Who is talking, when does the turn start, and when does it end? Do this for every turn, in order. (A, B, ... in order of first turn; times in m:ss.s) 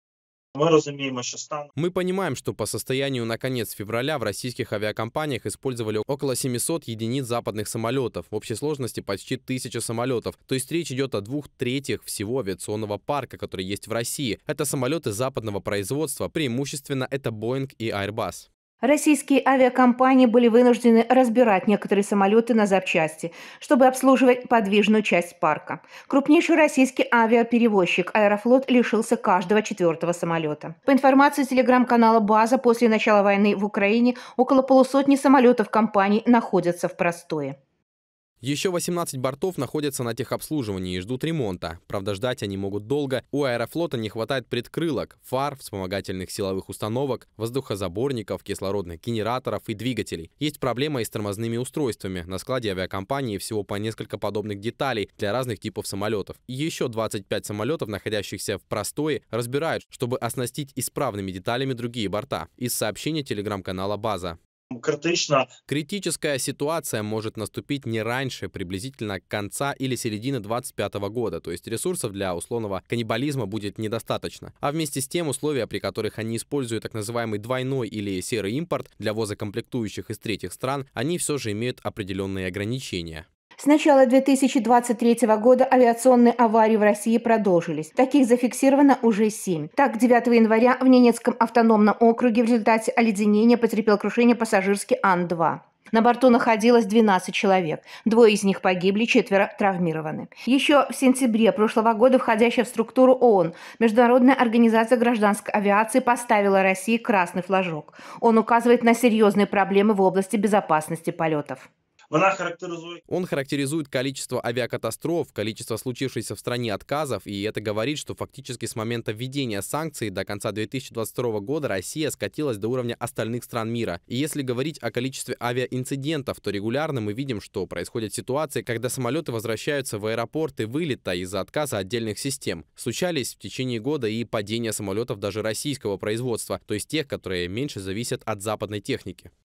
0:00.6-0:01.7 A
0:01.8-0:18.5 B
0:18.8-0:37.6 C
0:38.4-1:04.4 B
1:04.7-1:05.5 A
1:05.7-1:23.3 B
1:23.6-1:51.7 C
1:52.1-1:53.0 A
1:53.1-2:19.3 B